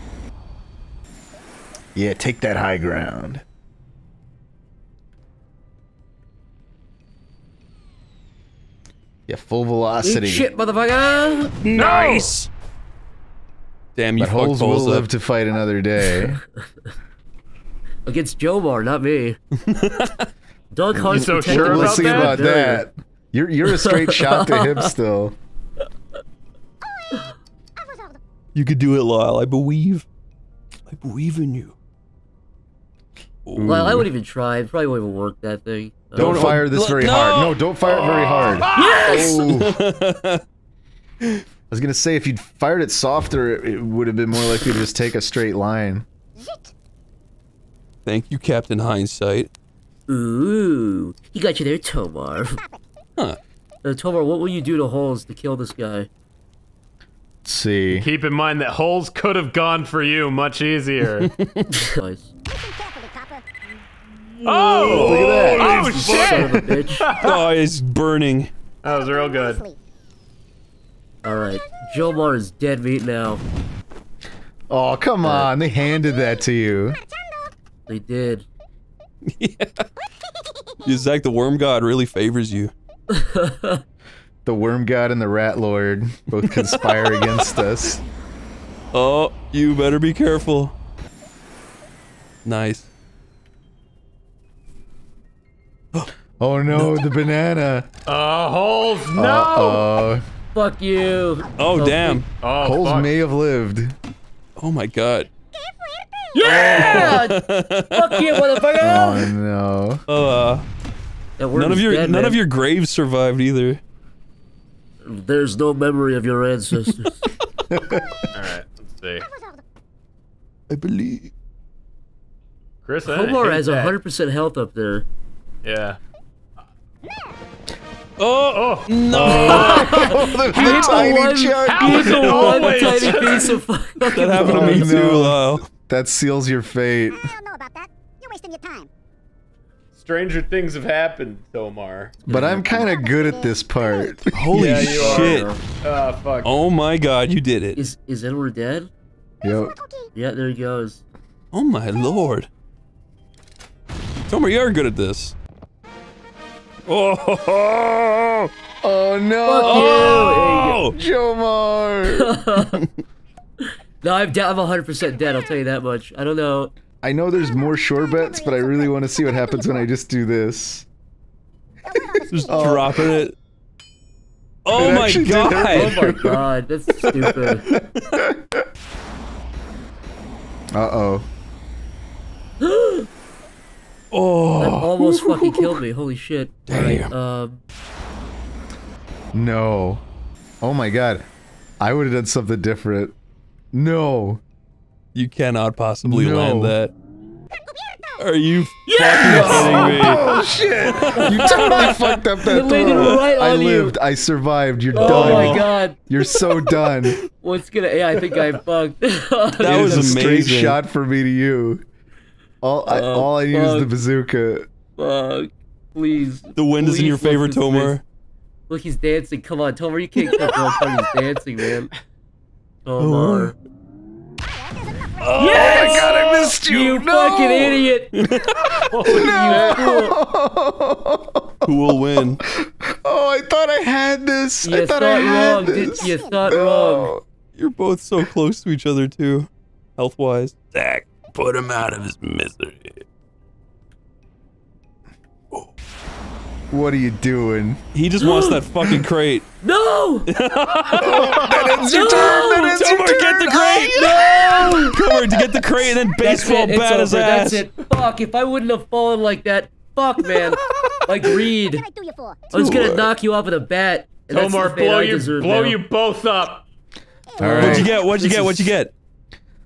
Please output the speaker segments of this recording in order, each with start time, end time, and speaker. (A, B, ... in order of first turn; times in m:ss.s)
0:02.0-0:03.4 A
0:09.3-0:10.5 A
0:10.0-0:11.6 B
0:11.6-0:12.5 C
0:11.8-0:12.3 D
0:14.0-0:15.1 C
0:14.2-0:16.4 A
0:18.1-0:19.4 B
0:19.6-0:20.3 C
0:20.7-0:22.9 B
0:21.1-0:22.4 D
0:21.1-0:25.4 A
0:23.7-0:24.9 B
0:26.8-0:28.2 E
0:28.6-0:30.1 C
0:30.9-0:31.8 C
0:33.5-0:34.1 C
0:33.6-0:34.0 A
0:33.6-0:36.6 B
0:36.2-0:39.8 A
0:36.2-0:40.4 C
0:37.9-0:39.0 D
0:38.7-0:39.5 B
0:41.7-0:46.1 A
0:48.0-0:49.5 C
0:50.1-0:52.6 B
0:52.5-0:52.9 E
0:53.8-0:56.1 B
0:57.4-0:58.1 A
0:57.9-1:01.3 D
1:01.2-1:01.9 C
1:01.7-1:02.3 B
1:02.5-1:03.4 E
1:04.4-1:06.5 C
1:04.4-1:07.4 D
1:04.8-1:05.7 A
1:05.6-1:07.1 B
1:06.4-1:06.9 A
1:07.2-1:08.5 C
1:08.8-1:09.6 D
1:08.8-1:09.8 E
1:11.2-1:13.4 B
1:11.2-1:12.3 E
1:14.7-1:17.0 A
1:15.2-1:15.5 B
1:15.7-1:17.5 E
1:17.9-1:18.5 B
1:19.2-1:19.8 C
1:20.3-1:21.1 E
1:20.8-1:22.7 C
1:23.1-1:23.8 B
1:24.4-1:28.0 A
1:26.4-1:27.6 C
1:28.9-1:30.8 C
1:32.4-1:32.9 C
1:36.4-1:37.9 A
1:38.1-1:39.9 D
1:39.2-1:40.2 A
1:40.5-1:42.2 B
1:41.6-1:42.3 C
1:42.4-1:43.1 D
1:42.6-1:44.0 A
1:44.6-1:45.3 C
1:45.5-1:46.8 E
1:46.4-1:47.2 D
1:46.4-1:49.3 B
1:46.4-1:48.6 C
1:48.8-1:50.0 A
1:50.1-1:50.6 C
1:51.4-1:52.4 B
1:51.5-1:53.8 C
1:55.0-1:57.2 B
1:57.7-1:58.2 A
1:58.3-1:59.3 D
1:59.2-1:59.6 E
2:00.7-2:01.3 C
2:02.8-2:04.0 D
2:03.0-2:05.1 B
2:05.6-2:06.0 D
2:07.1-2:07.3 E
2:08.2-2:10.9 C
2:08.5-2:08.9 D
2:09.1-2:12.3 A
2:09.2-2:14.9 B
2:11.6-2:13.6 D
2:11.9-2:13.5 C
2:14.0-2:15.6 C
2:14.4-2:17.3 A
2:17.1-2:18.9 E
2:20.0-2:22.2 D
2:22.2-2:22.9 B
2:22.3-2:24.6 A
2:22.7-2:24.3 E
2:24.3-2:25.5 C
2:24.5-2:26.6 D
2:24.9-2:25.6 B
2:26.4-2:27.8 C
2:27.8-2:28.9 B
2:29.4-2:29.8 A
2:29.4-2:30.1 E
2:30.1-2:31.0 B
2:31.5-2:32.5 C
2:34.3-2:35.3 C
2:36.9-2:38.5 C
2:38.8-2:42.4 A
2:39.4-2:40.8 B
2:39.6-2:41.0 C
2:42.1-2:42.8 B
2:42.6-2:42.9 C
2:44.0-2:46.7 B
2:47.0-2:50.9 A
2:47.4-2:50.0 E
2:51.8-2:53.3 E
2:52.0-2:53.1 A
2:52.3-2:53.3 C
2:54.6-2:56.0 C
2:54.7-2:56.5 A
2:55.7-2:57.7 B
2:57.2-2:58.6 A
2:57.7-2:58.2 C
3:00.7-3:01.3 A
3:02.6-3:03.1 B
3:04.1-3:05.8 C
3:04.6-3:07.6 B
3:06.7-3:07.1 C
3:09.3-3:10.0 A
3:10.6-3:11.3 A
3:11.8-3:13.2 A
3:13.7-3:14.4 A
3:15.2-3:16.9 C
3:16.0-3:16.8 A
3:17.7-3:18.2 E
3:18.2-3:20.2 C
3:18.9-3:20.2 B
3:19.2-3:27.2 A
3:20.8-3:22.2 C
3:21.2-3:21.9 B
3:22.4-3:24.0 B
3:23.0-3:23.3 C
3:24.9-3:25.7 C
3:24.9-3:26.0 B
3:27.4-3:30.3 B
3:29.6-3:30.8 C
3:29.6-3:31.8 A
3:32.6-3:34.7 A
3:32.9-3:33.9 B
3:35.0-3:38.0 B
3:36.6-3:38.0 C
3:38.7-3:41.9 B
3:42.8-3:43.6 B
3:43.0-3:43.6 C
3:44.5-3:46.0 E
3:45.2-3:46.5 C
3:45.4-3:48.2 B
3:45.5-3:47.9 A
3:48.2-3:48.8 C
3:48.8-3:57.2 A
3:48.9-3:49.9 D
3:49.0-3:50.2 B
3:51.6-3:52.4 C
3:54.6-3:57.1 B
3:55.8-3:56.5 E
3:57.6-4:03.0 C
4:06.7-4:07.8 A
4:07.9-4:09.5 C
4:08.2-4:08.6 B
4:09.6-4:10.3 B
4:10.3-4:17.6 C
4:10.9-4:14.9 A
4:11.2-4:11.6 D
4:11.9-4:12.7 B
4:13.9-4:15.0 B
4:15.8-4:21.8 B
4:20.4-4:22.5 E
4:22.5-4:23.1 C
4:22.5-4:25.8 B
4:24.3-4:26.6 D
4:27.3-4:28.1 E
4:27.4-4:27.9 A
4:27.4-4:28.9 C
4:27.5-4:28.8 B